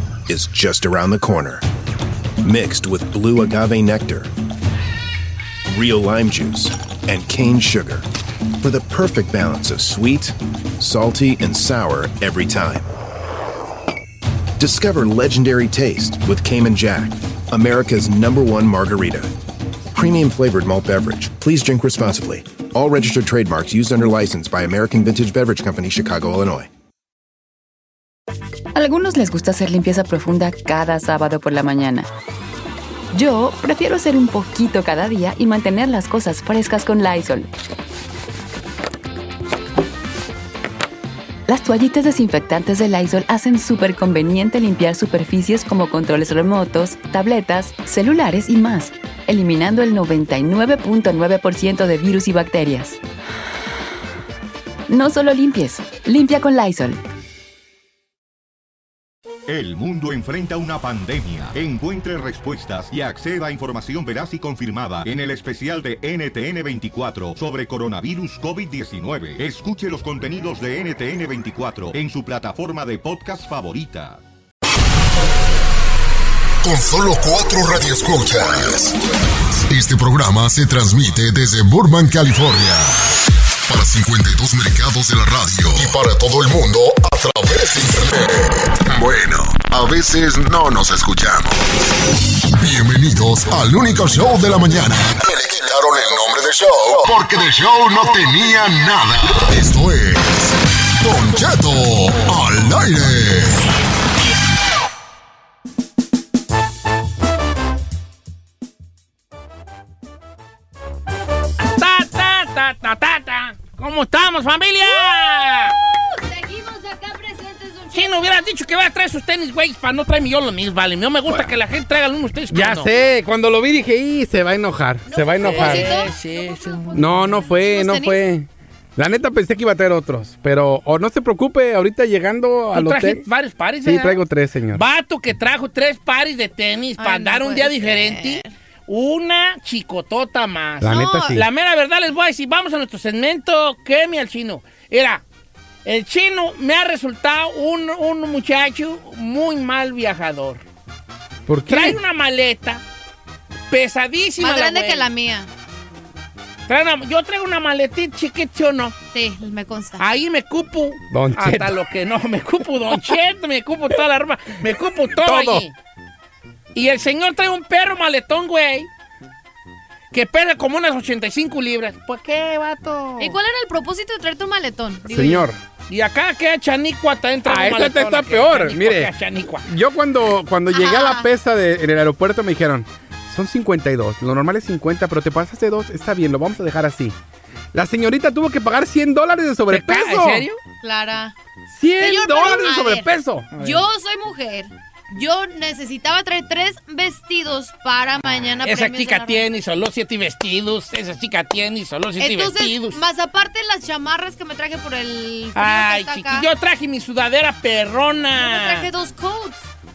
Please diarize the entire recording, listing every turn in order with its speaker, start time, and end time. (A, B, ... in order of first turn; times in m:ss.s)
0:00.3-0:01.6 A
0:02.4-0:04.3 A
0:05.7-0:08.1 A
0:08.6-0:12.9 A
0:14.6-0:19.3 A
0:19.9-0:26.7 A
0:28.8-0:32.1 B
0:33.1-0:37.5 B
0:41.5-0:53.0 B
0:54.9-0:57.0 B
0:59.5-1:14.2 C
1:16.6-1:19.0 D
1:19.6-1:23.1 D
1:23.7-1:31.6 D
1:32.5-1:43.6 D
1:51.6-1:55.8 E
1:55.1-1:58.4 F
1:57.9-2:02.9 E
2:01.3-2:01.5 G
2:02.5-2:06.0 G
2:05.1-2:08.2 F
2:05.4-2:07.3 E
2:07.0-2:13.2 G
2:12.7-2:14.2 E
2:13.8-2:14.8 G
2:14.7-2:25.2 E
2:17.0-2:18.5 F
2:20.8-2:21.5 G
2:20.9-2:21.3 F
2:25.8-2:30.6 E
2:31.5-2:32.0 G
2:31.7-2:32.8 E
2:33.7-2:35.1 E
2:34.4-2:35.5 F
2:36.7-2:39.0 E
2:39.1-2:40.0 F
2:40.0-2:45.7 E
2:41.1-2:41.8 G
2:45.2-2:45.7 G
2:46.7-2:48.9 E
2:50.1-2:53.4 E
2:53.2-2:55.4 F
2:55.1-2:55.6 G
2:55.9-2:59.7 E
2:57.5-2:59.1 G
2:59.7-3:07.2 G
3:00.7-3:01.3 F
3:07.7-3:10.5 G
3:09.7-3:10.6 E
3:10.8-3:11.3 F
3:11.7-3:13.5 G
3:12.0-3:19.5 F
3:13.5-3:13.8 E
3:18.4-3:23.0 E
3:22.2-3:26.5 F
3:25.6-3:28.9 E
3:28.4-3:29.7 F